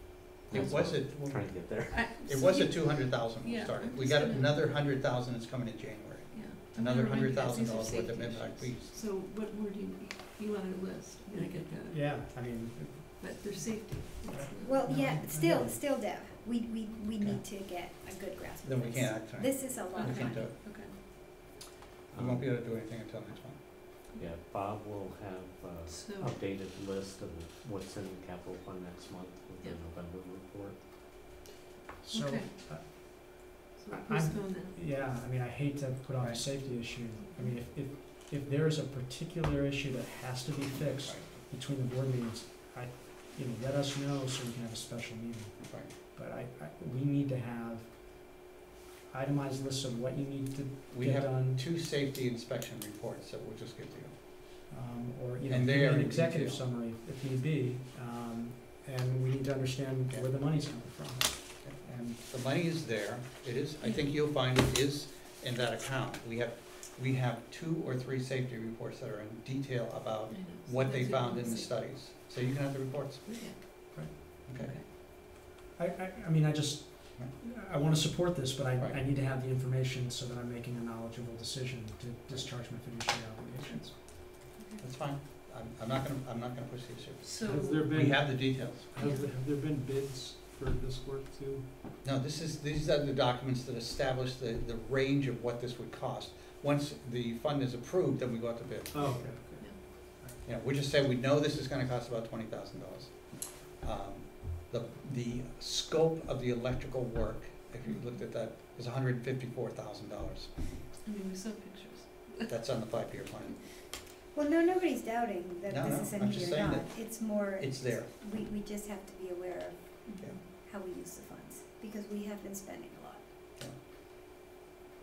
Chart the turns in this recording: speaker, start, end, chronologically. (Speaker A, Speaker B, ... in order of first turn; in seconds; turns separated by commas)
Speaker A: 0.5-1.7, Speaker B: 0.5-2.0, Speaker C: 0.5-1.1, Speaker C: 1.9-4.7, Speaker A: 2.2-8.9, Speaker C: 6.3-12.1, Speaker D: 11.8-13.5, Speaker C: 13.2-14.8, Speaker D: 14.3-15.8, Speaker E: 14.6-20.5, Speaker A: 18.6-20.5, Speaker C: 19.9-20.9, Speaker B: 22.1-22.5, Speaker A: 22.1-23.6, Speaker B: 24.2-30.8, Speaker C: 25.9-26.3, Speaker D: 32.0-47.9, Speaker C: 32.1-32.5, Speaker C: 33.8-34.8, Speaker C: 37.2-37.5, Speaker A: 41.0-41.3, Speaker A: 45.7-45.9, Speaker D: 49.1-51.6, Speaker A: 50.9-54.1, Speaker D: 54.7-61.9, Speaker A: 55.5-56.6, Speaker A: 61.6-73.6, Speaker C: 63.8-64.1, Speaker C: 70.3-71.8, Speaker C: 73.2-73.6, Speaker C: 74.3-74.8, Speaker A: 74.5-74.7, Speaker D: 75.7-84.0, Speaker C: 83.7-84.0, Speaker C: 84.5-84.8, Speaker A: 84.8-88.9, Speaker C: 87.2-89.3, Speaker F: 87.4-91.7, Speaker A: 92.0-99.3, Speaker F: 98.9-100.3, Speaker A: 100.4-110.5, Speaker C: 111.0-112.5, Speaker A: 112.5-113.6, Speaker E: 114.3-123.2, Speaker A: 115.7-118.1, Speaker C: 120.1-120.3